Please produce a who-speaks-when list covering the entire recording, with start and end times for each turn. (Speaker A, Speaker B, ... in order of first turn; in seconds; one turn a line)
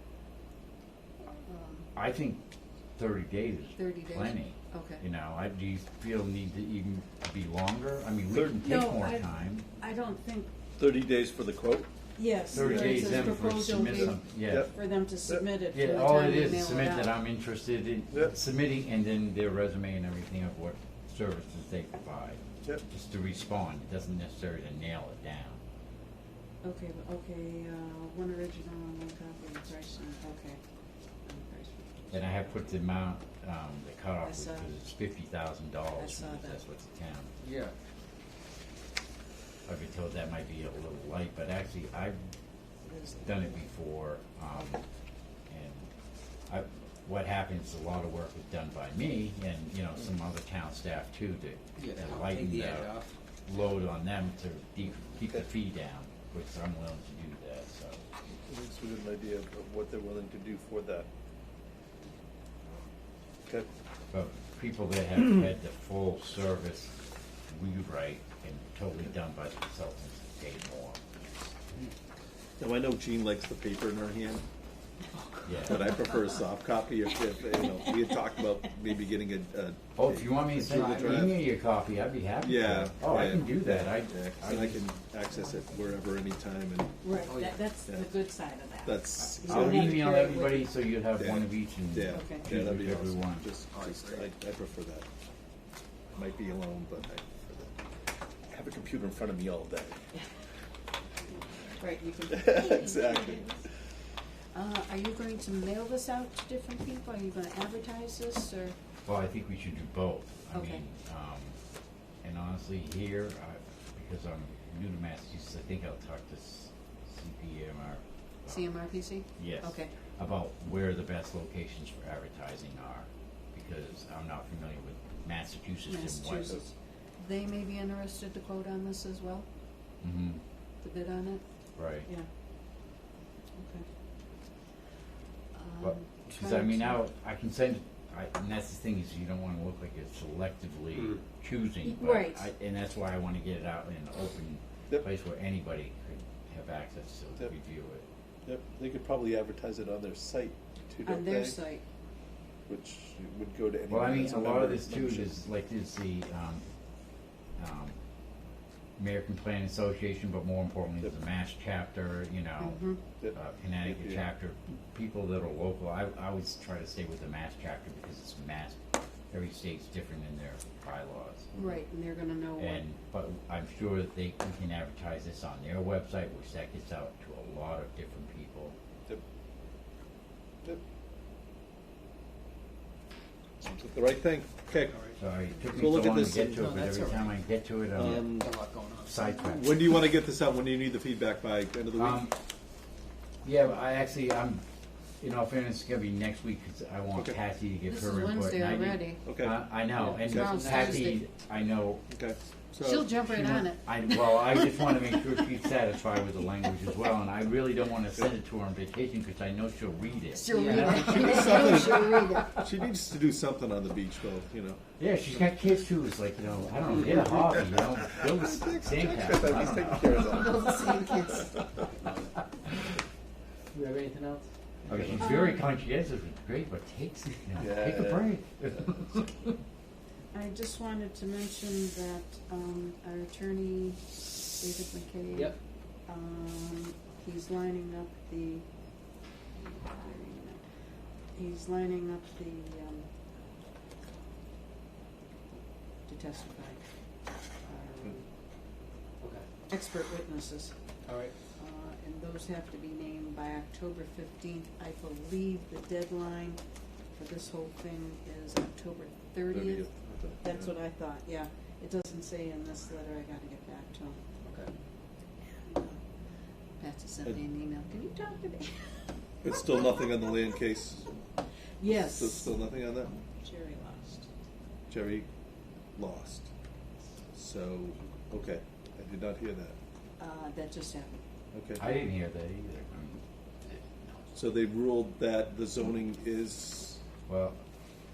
Speaker A: 1.4-1.9
Speaker B: 1.9-2.4
Speaker B: 3.0-9.6
Speaker A: 3.8-5.0
Speaker A: 8.6-10.5
Speaker C: 10.8-11.9
Speaker A: 12.2-17.1
Speaker C: 12.5-14.7
Speaker B: 12.5-14.7
Speaker B: 15.7-25.6
Speaker A: 26.6-30.6
Speaker A: 31.2-32.4
Speaker B: 32.1-37.3
Speaker A: 34.2-34.7
Speaker A: 36.0-36.6
Speaker D: 37.4-37.7
Speaker B: 39.6-42.2
Speaker A: 42.9-43.5
Speaker B: 43.2-44.8
Speaker B: 45.5-45.9
Speaker B: 46.5-52.9
Speaker D: 51.8-53.1
Speaker B: 53.5-58.0
Speaker C: 58.5-61.1
Speaker B: 64.1-67.0
Speaker B: 67.5-71.2
Speaker C: 72.6-74.4
Speaker B: 75.4-75.8
Speaker C: 75.6-81.3
Speaker A: 77.7-78.0
Speaker B: 80.0-84.8
Speaker D: 80.6-81.3
Speaker C: 82.4-87.0
Speaker A: 87.0-90.7
Speaker D: 87.2-87.6
Speaker C: 88.8-90.3
Speaker B: 89.2-93.5
Speaker C: 91.2-95.1
Speaker A: 92.1-92.4
Speaker D: 93.7-94.3
Speaker C: 96.1-97.7
Speaker C: 98.5-100.0
Speaker A: 101.8-103.6
Speaker C: 102.3-103.5
Speaker A: 104.5-108.8
Speaker B: 109.0-111.6
Speaker A: 110.5-110.8
Speaker B: 112.2-118.7
Speaker A: 118.5-119.9
Speaker B: 119.3-126.6
Speaker A: 125.9-129.5
Speaker B: 130.0-130.4
Speaker A: 130.8-131.4
Speaker B: 131.8-132.1
Speaker A: 133.6-133.8
Speaker A: 135.5-137.0
Speaker B: 135.8-148.1
Speaker A: 141.8-142.4
Speaker C: 148.4-151.6
Speaker A: 151.0-151.8
Speaker C: 152.7-155.3
Speaker B: 153.9-156.7
Speaker B: 157.6-157.9
Speaker B: 159.0-162.8
Speaker A: 162.6-163.0
Speaker C: 163.2-164.2
Speaker B: 163.3-168.8
Speaker B: 169.3-171.5
Speaker C: 171.5-171.8
Speaker A: 171.5-172.8
Speaker B: 172.6-178.7
Speaker C: 183.6-185.0
Speaker D: 184.9-185.2
Speaker B: 185.2-188.4
Speaker C: 185.7-186.7
Speaker D: 186.5-187.3
Speaker C: 187.9-188.5
Speaker D: 188.4-189.2
Speaker B: 189.0-189.7
Speaker C: 189.4-192.2
Speaker B: 191.9-192.3
Speaker B: 193.4-194.6
Speaker B: 195.2-202.0
Speaker A: 197.9-199.2
Speaker C: 199.2-199.6
Speaker D: 199.9-201.0
Speaker A: 200.2-201.2
Speaker C: 202.1-203.1
Speaker A: 202.8-205.5
Speaker B: 203.3-212.2
Speaker A: 210.3-212.6
Speaker D: 210.5-211.6
Speaker C: 210.9-214.8
Speaker B: 215.0-220.3
Speaker C: 216.9-221.1
Speaker A: 220.0-221.6
Speaker D: 223.7-224.4
Speaker B: 224.9-229.3
Speaker C: 224.9-225.3
Speaker A: 225.2-225.7
Speaker C: 227.6-228.3
Speaker A: 230.3-235.6
Speaker A: 236.1-238.7
Speaker A: 239.5-240.6
Speaker A: 241.3-243.1
Speaker A: 245.5-246.8
Speaker A: 247.6-248.2
Speaker D: 249.2-249.5
Speaker A: 249.7-250.7
Speaker D: 251.1-251.3
Speaker A: 251.5-256.6
Speaker A: 257.1-259.9
Speaker C: 259.5-260.7
Speaker A: 260.4-264.2
Speaker D: 264.4-264.7
Speaker A: 265.6-266.0
Speaker A: 266.8-269.0
Speaker C: 269.4-271.1
Speaker A: 271.8-272.5
Speaker C: 271.9-273.1
Speaker A: 273.1-274.2
Speaker C: 274.9-275.3
Speaker C: 275.9-276.5
Speaker C: 277.3-279.8
Speaker A: 280.2-281.2
Speaker C: 281.5-281.8
Speaker B: 281.8-283.2
Speaker D: 283.7-284.1
Speaker C: 284.3-287.0
Speaker B: 287.3-287.6